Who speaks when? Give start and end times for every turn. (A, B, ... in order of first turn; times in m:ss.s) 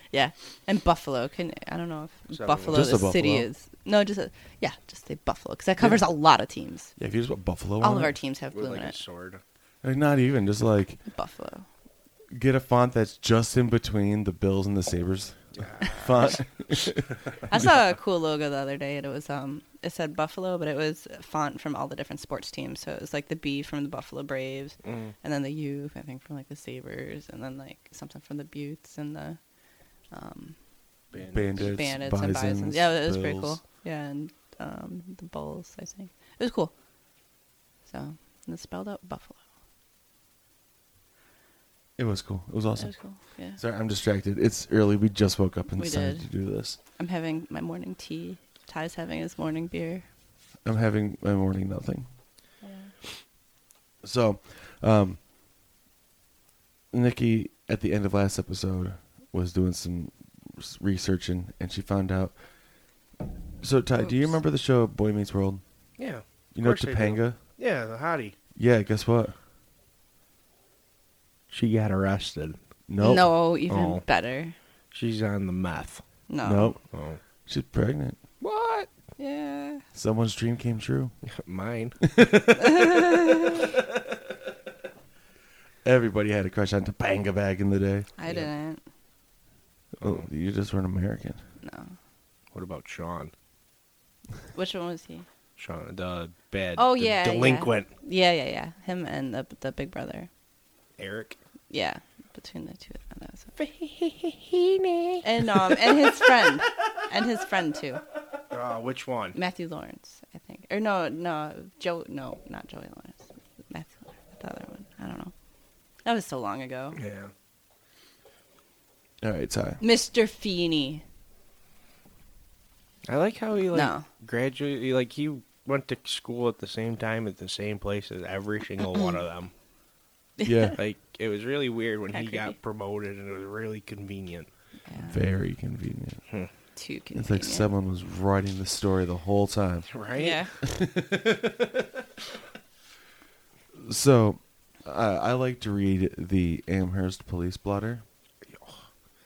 0:00.1-0:06.9 A
0:02.3-0:03.0 B
0:02.7-0:03.5 C
0:07.0-0:08.2 C
0:07.8-0:09.0 A
0:08.5-0:09.4 B
0:09.8-0:11.0 C
0:11.1-0:11.7 A
0:12.3-0:17.1 C
0:15.6-0:16.4 B
0:15.8-0:16.4 A
0:17.5-0:29.4 A
0:24.8-0:25.1 B
0:30.1-0:30.6 A
0:31.1-0:31.8 B
0:31.3-0:33.6 C
0:31.6-0:36.7 A
0:37.9-0:39.4 A
0:42.0-0:42.9 C
0:42.8-0:43.6 A
0:43.6-0:46.8 C
0:45.8-0:46.3 A
0:47.0-0:50.0 A
0:50.6-0:52.1 C
0:52.6-0:52.9 A
0:54.0-0:55.2 C
0:56.9-1:02.4 C
1:03.6-1:05.6 C
1:04.0-1:04.3 A
1:06.0-1:08.4 B
1:06.6-1:07.4 C
1:08.6-1:09.4 C
1:11.5-1:12.6 B
1:12.9-1:13.3 C
1:13.0-1:14.6 A
1:13.7-1:14.0 B
1:14.9-1:16.0 B
1:16.3-1:16.7 A
1:16.4-1:16.8 C
1:16.9-1:17.2 B
1:17.5-1:18.2 C
1:18.4-1:18.9 B
1:19.2-1:19.8 A
1:19.9-1:21.1 C
1:21.3-1:22.5 B
1:22.1-1:23.7 C
1:22.6-1:23.6 A
1:25.8-1:28.1 C
1:28.2-1:28.8 A
1:30.0-1:30.3 B
1:30.0-1:31.4 C
1:31.6-1:32.0 A
1:32.5-1:33.3 B
1:34.5-1:35.3 A
1:35.6-1:37.9 B
1:36.8-1:40.3 A
1:41.0-1:41.4 B
1:41.7-1:43.5 A
1:43.6-1:46.1 B
1:45.2-1:48.0 A
1:48.5-1:49.4 B
1:49.4-1:55.3 A
1:56.0-1:57.0 A
1:57.0-1:57.3 B
1:59.2-1:59.8 C
1:59.8-2:01.0 A
2:03.1-2:09.5 B
2:03.7-2:04.1 A
2:10.4-2:10.7 A
2:10.4-2:10.8 C
2:10.8-2:14.5 B
2:12.1-2:12.6 A
2:14.9-2:15.2 A
2:15.0-2:16.2 C
2:16.8-2:17.7 A
2:17.2-2:19.9 C
2:19.9-2:20.5 B
2:20.2-2:20.5 A
2:20.6-2:21.4 C
2:23.8-2:28.0 C
2:28.4-2:28.9 B